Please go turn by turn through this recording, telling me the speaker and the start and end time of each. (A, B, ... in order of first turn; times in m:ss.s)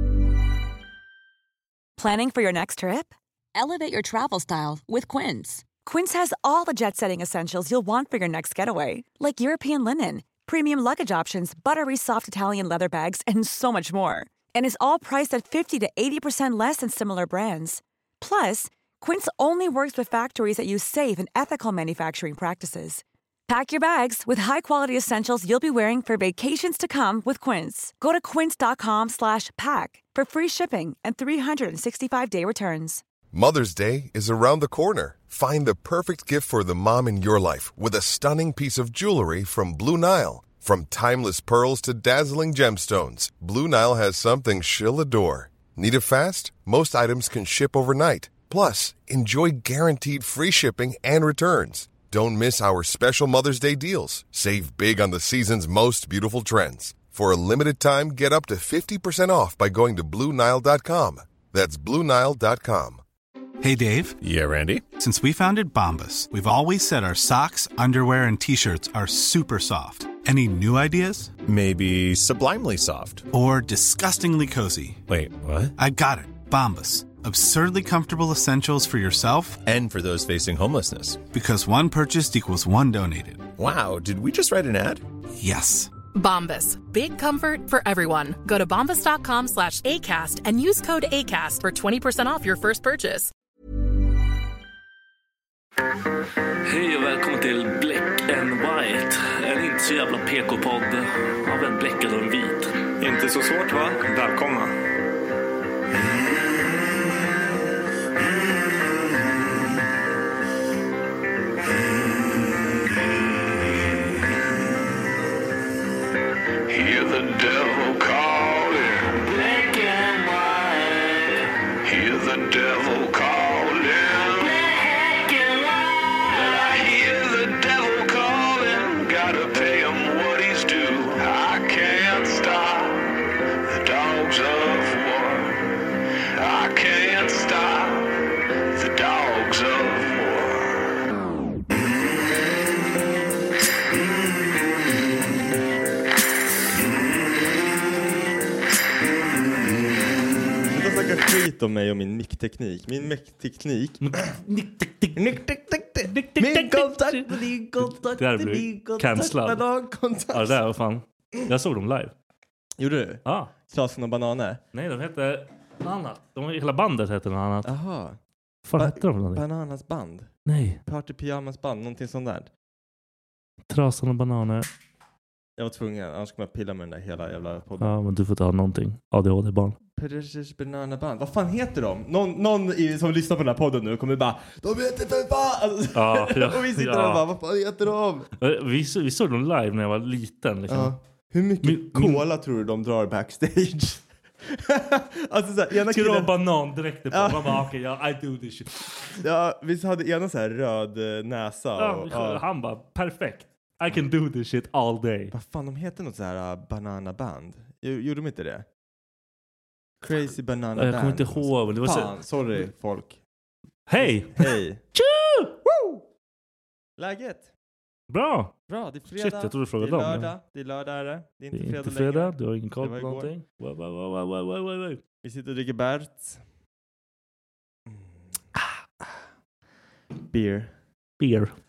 0:02.0-0:33.0 A
0:33.3-1:03.0 B
1:03.6-1:04.2 C
1:04.2-1:04.9 D
1:04.9-1:11.3 C
1:11.4-1:13.3 D
1:13.3-1:15.0 C
1:15.1-1:15.7 D
1:15.8-1:19.6 C
1:19.6-1:21.2 D
1:21.3-1:23.5 C
1:23.6-1:25.0 D
1:25.4-1:25.9 C
1:26.1-1:33.3 E
1:36.6-1:42.7 F
1:43.0-1:44.7 G
1:56.7-2:01.3 H
2:01.8-2:15.6 H
2:16.3-2:20.9 H
2:30.6-2:34.4 G
2:34.0-2:35.4 F
2:35.2-2:40.6 G
2:36.0-2:39.6 F
2:40.3-2:42.1 F
2:42.8-2:44.6 G
2:43.2-2:43.5 F
2:44.7-2:47.7 F
2:47.6-2:48.2 G
2:48.6-2:49.4 F
2:48.8-2:50.3 G
2:50.4-2:50.8 F
2:50.8-2:52.5 G
2:53.7-2:54.7 F
2:55.6-2:58.0 G
2:57.8-2:59.8 F
3:00.0-3:08.3 G
3:05.9-3:07.2 F
3:08.4-3:10.9 F
3:10.7-3:16.3 G
3:11.6-3:12.2 F
3:15.9-3:19.2 F
3:17.1-3:17.6 G
3:19.1-3:22.4 G
3:21.8-3:25.3 F
3:25.3-3:28.6 G
3:30.0-3:33.2 G
3:30.8-3:32.2 F
3:33.9-3:35.6 F
3:34.0-3:34.8 G
3:35.6-3:36.0 G
3:37.0-3:37.5 G
3:38.1-3:38.6 F
3:38.7-3:43.3 G
3:39.1-3:40.3 F
3:41.5-3:45.0 F
3:45.2-3:46.4 G
3:47.9-3:48.2 G
3:50.3-3:50.7 G
3:51.2-3:51.5 F